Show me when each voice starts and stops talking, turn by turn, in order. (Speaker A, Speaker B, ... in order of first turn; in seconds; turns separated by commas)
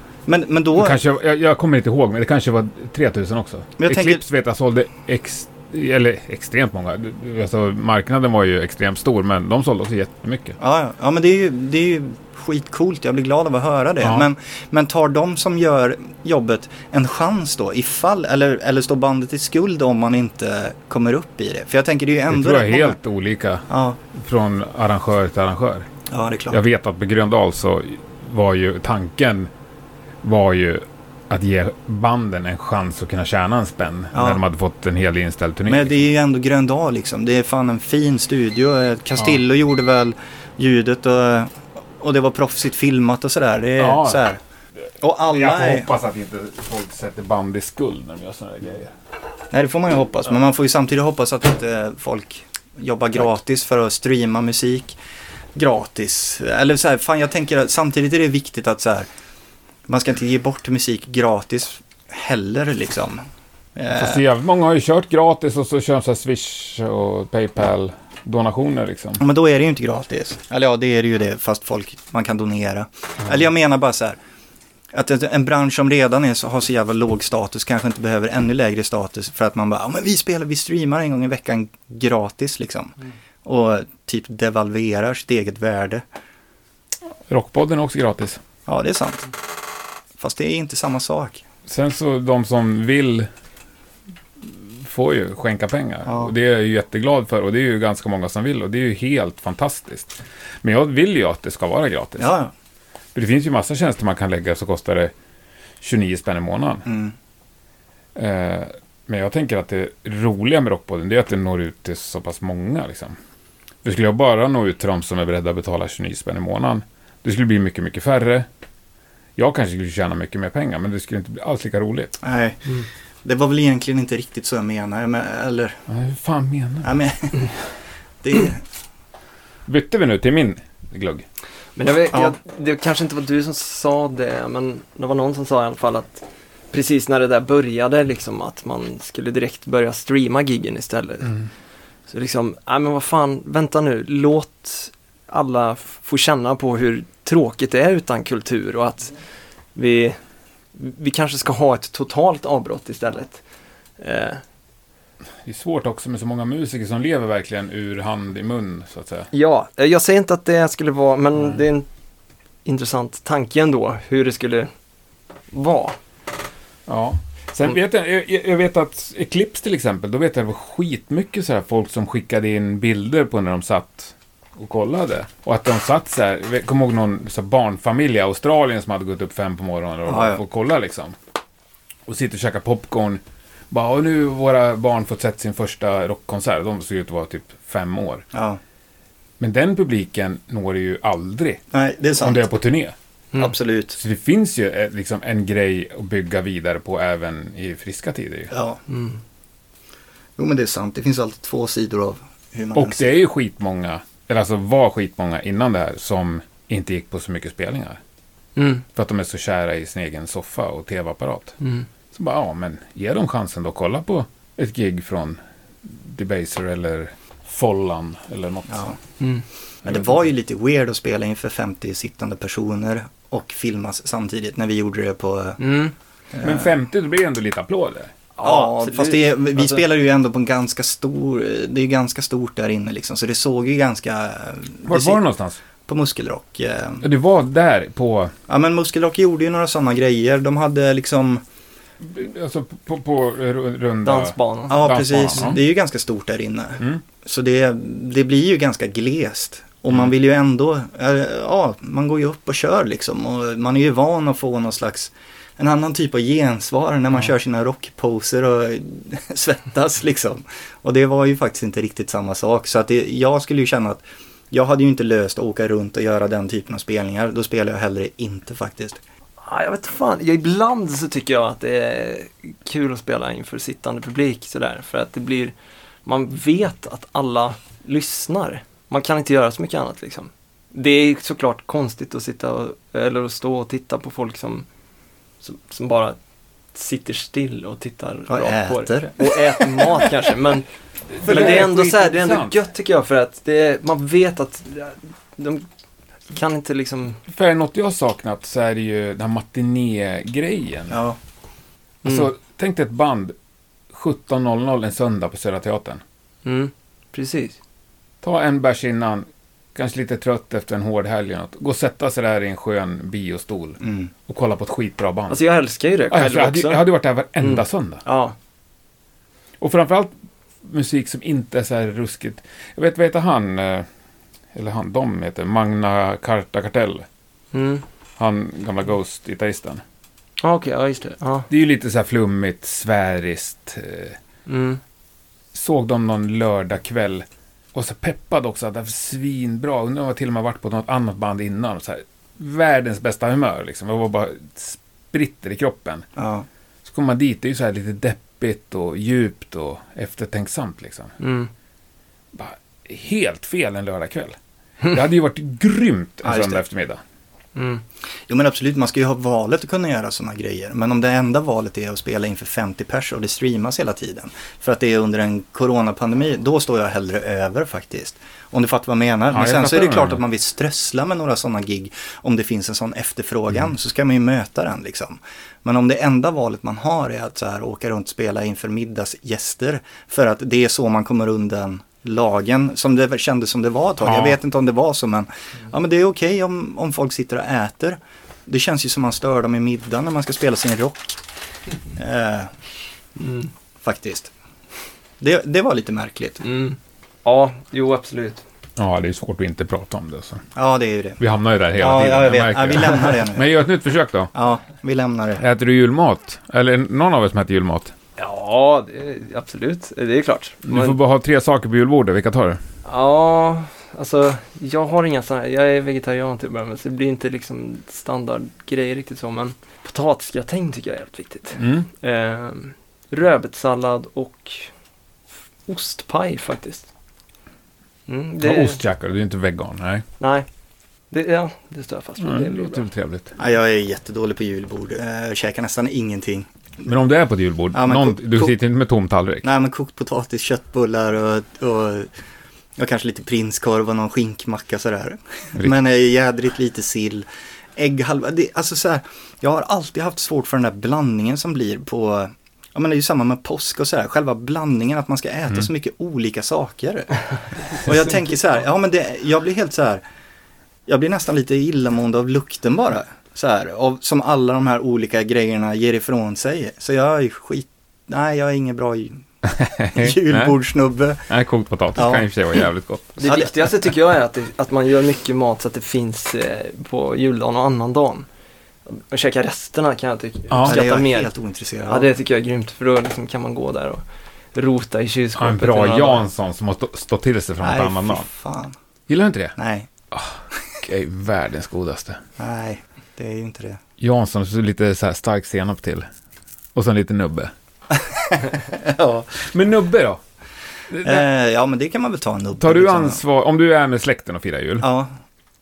Speaker A: 0.2-1.0, Speaker B: 0.7-10.6, Speaker A: 3.8-4.2, Speaker A: 10.6-23.0, Speaker B: 22.3-25.9, Speaker A: 23.7-24.0, Speaker A: 26.1-26.6, Speaker B: 26.5-29.5, Speaker B: 30.2-36.0, Speaker A: 34.1-34.4, Speaker A: 35.7-44.4, Speaker B: 43.8-44.2, Speaker A: 45.0-45.9, Speaker B: 45.3-48.9, Speaker A: 49.5-55.0, Speaker A: 55.5-59.1, Speaker A: 59.9-63.2, Speaker A: 63.8-64.2, Speaker B: 63.9-69.2, Speaker A: 69.2-74.2, Speaker A: 74.9-82.9, Speaker A: 83.4-86.0, Speaker B: 87.3-88.4, Speaker A: 88.7-89.2, Speaker A: 90.2-91.4, Speaker B: 91.7-93.3, Speaker B: 94.4-102.3, Speaker A: 96.0-96.3, Speaker A: 102.2-102.5, Speaker B: 103.1-105.1, Speaker B: 105.8-106.9, Speaker A: 106.9-107.1, Speaker B: 108.2-113.1, Speaker B: 113.8-118.5, Speaker B: 119.4-122.2, Speaker A: 122.2-125.8, Speaker B: 125.9-126.9, Speaker A: 126.8-127.5, Speaker A: 128.2-128.6, Speaker B: 129.7-131.2, Speaker C: 131.8-141.3, Speaker C: 142.1-149.1, Speaker C: 149.7-150.2, Speaker C: 150.7-153.4, Speaker C: 154.0-154.4, Speaker B: 155.4-159.3, Speaker C: 159.3-161.9, Speaker C: 162.6-164.7, Speaker C: 165.5-166.0, Speaker B: 166.9-181.1, Speaker A: 180.1-180.4, Speaker B: 182.1-188.2, Speaker A: 188.3-188.6, Speaker B: 189.4-191.6, Speaker A: 191.7-192.4, Speaker B: 192.2-192.9, Speaker A: 193.4-194.0, Speaker B: 194.0-198.5, Speaker A: 198.5-198.8, Speaker C: 198.9-199.2, Speaker A: 200.4-203.1, Speaker B: 202.7-208.0, Speaker C: 208.6-208.8, Speaker B: 208.9-211.6, Speaker C: 211.6-211.9, Speaker B: 212.1-218.9, Speaker A: 218.7-219.0, Speaker A: 219.8-225.6, Speaker B: 219.9-220.2, Speaker C: 225.6-225.9, Speaker A: 226.3-226.7, Speaker B: 226.4-228.1, Speaker C: 228.4-229.8, Speaker A: 228.4-235.2, Speaker B: 234.8-235.6, Speaker A: 235.9-237.0, Speaker B: 237.0-238.3, Speaker A: 238.5-241.4, Speaker B: 242.0-245.6, Speaker C: 244.0-245.5, Speaker A: 244.7-269.0, Speaker C: 269.4-275.5, Speaker C: 276.0-284.6, Speaker C: 285.4-286.2, Speaker C: 286.7-290.6, Speaker A: 288.3-290.1, Speaker B: 291.1-292.6, Speaker C: 291.2-295.6, Speaker C: 296.3-297.2, Speaker B: 297.3-301.0, Speaker A: 300.9-301.2, Speaker B: 302.0-303.3, Speaker B: 303.9-306.0, Speaker C: 306.4-307.6, Speaker B: 308.2-315.4, Speaker A: 313.8-314.1, Speaker C: 315.3-316.8, Speaker B: 316.1-318.0, Speaker C: 317.4-318.3, Speaker B: 319.6-320.1, Speaker B: 320.6-323.9, Speaker B: 324.5-327.1, Speaker C: 327.5-327.8, Speaker B: 328.2-329.8, Speaker C: 330.4-331.5, Speaker B: 331.5-334.2, Speaker C: 334.4-334.8, Speaker B: 335.5-346.1, Speaker A: 346.1-346.4, Speaker B: 346.8-351.1, Speaker C: 351.2-351.5, Speaker B: 352.3-354.4, Speaker B: 354.9-357.0, Speaker A: 356.2-356.6, Speaker C: 357.5-357.8, Speaker A: 358.3-391.2, Speaker B: 369.3-370.2, Speaker B: 384.0-384.4, Speaker A: 391.9-392.5, Speaker C: 393.2-393.5, Speaker A: 393.8-394.3, Speaker A: 395.2-396.4, Speaker C: 396.4-398.4, Speaker B: 398.8-400.4, Speaker A: 400.6-401.2, Speaker B: 401.2-404.3, Speaker A: 401.8-403.5, Speaker A: 404.3-405.4, Speaker B: 405.4-407.9, Speaker C: 408.2-411.0, Speaker B: 410.6-412.6, Speaker C: 412.8-424.7, Speaker B: 421.6-421.9, Speaker C: 425.7-426.9, Speaker C: 428.1-428.8, Speaker B: 428.4-430.0, Speaker C: 430.2-430.5, Speaker C: 431.1-432.9, Speaker B: 432.2-433.3, Speaker A: 433.4-436.5, Speaker B: 436.8-439.4, Speaker A: 437.7-438.5, Speaker A: 439.4-442.1, Speaker A: 442.8-457.2, Speaker A: 457.7-460.0, Speaker A: 460.9-469.2, Speaker B: 469.4-470.6, Speaker A: 469.9-471.2, Speaker B: 471.3-473.2, Speaker A: 471.9-472.2, Speaker C: 473.2-478.2, Speaker A: 473.2-473.5, Speaker C: 478.9-481.3, Speaker B: 480.5-480.8, Speaker A: 480.6-482.1, Speaker C: 481.9-484.0, Speaker C: 484.5-486.3, Speaker B: 485.4-488.2, Speaker A: 487.6-488.7, Speaker B: 489.1-489.6, Speaker A: 489.6-489.9, Speaker B: 490.1-492.2, Speaker A: 492.4-493.8, Speaker B: 494.0-496.1, Speaker B: 496.7-497.5, Speaker A: 497.9-499.4, Speaker B: 499.4-500.2, Speaker B: 500.9-501.2, Speaker A: 501.0-503.2, Speaker B: 502.6-504.9, Speaker A: 504.8-505.1